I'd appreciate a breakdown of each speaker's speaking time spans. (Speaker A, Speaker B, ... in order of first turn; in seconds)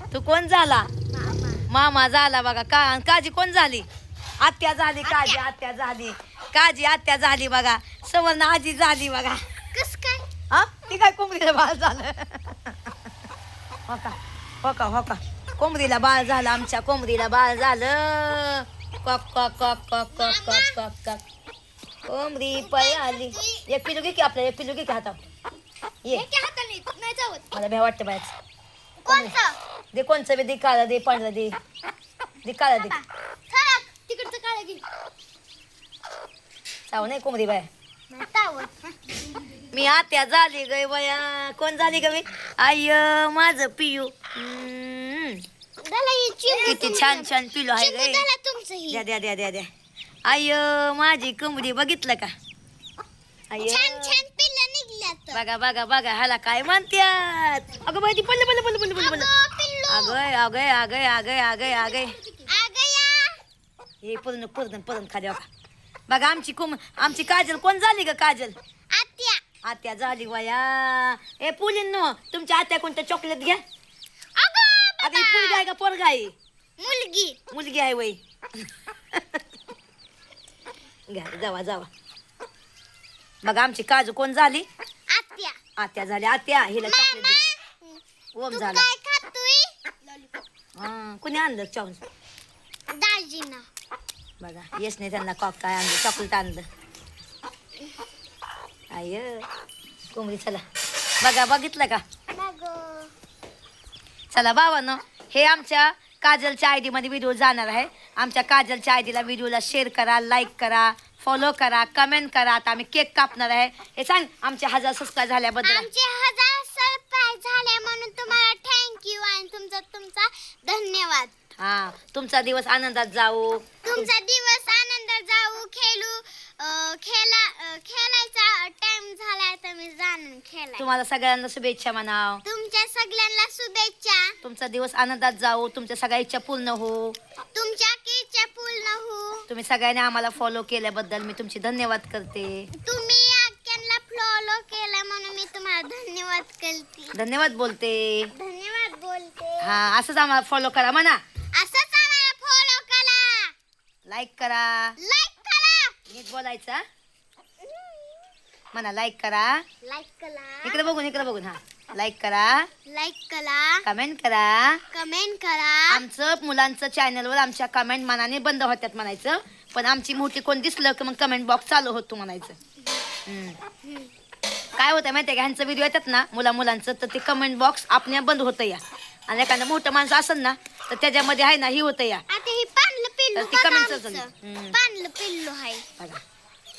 Speaker A: 0.1-0.9, 1.7-3.9, 4.4-9.4, 10.5-12.8, 13.9-21.2, 22.1-25.2, 27.5-28.3, 29.1-29.4, 29.9-31.6, 32.4-33.0, 36.9-37.7, 39.7-45.4, 46.7-48.2, 48.9-49.7, 50.3-52.3, 53.5-54.2, 55.3-59.3, 59.9-62.2, 64.0-65.5, 66.1-68.5, 69.6-73.6, 75.0-76.3, 77.5-79.4, 81.1-81.9, 83.4-84.7, 85.8-87.4, 88.3-88.9, 90.8-92.0, 94.4-96.7, 98.9-99.5, 100.1-100.6, 101.2-102.0, 104.3-115.9, 121.6-124.1, 130.8-132.4, 134.4-137.2, 139.5-142.7, 147.1-148.3, 149.6-151.2, 154.1-155.0, 156.1-156.8, 158.7-159.7, 160.6-162.7, 163.8-164.8, 165.9-172.6, 173.3-173.6, 174.8-182.2, 183.3-184.8
Speaker B: 1.1-1.6, 5.0-5.4, 9.7-10.3, 20.1-20.8, 22.6-23.6, 26.1-27.5, 29.0-29.6, 32.8-34.8, 38.1-39.1, 45.8-49.0, 53.6-55.4, 58.9-60.2, 62.4-63.4, 68.9-69.4, 74.3-75.7, 76.8-77.4, 85.1-85.6, 86.8-89.8, 92.9-93.7, 102.3-103.1, 115.6-121.3, 123.8-130.9, 132.4-134.4, 137.5-139.5, 142.7-147.2, 148.3-149.8, 151.5-153.5, 155.0-156.0, 157.6-158.3, 159.8-160.8, 162.9-163.9, 164.9-166.0, 173.8-174.1, 182.3-185.9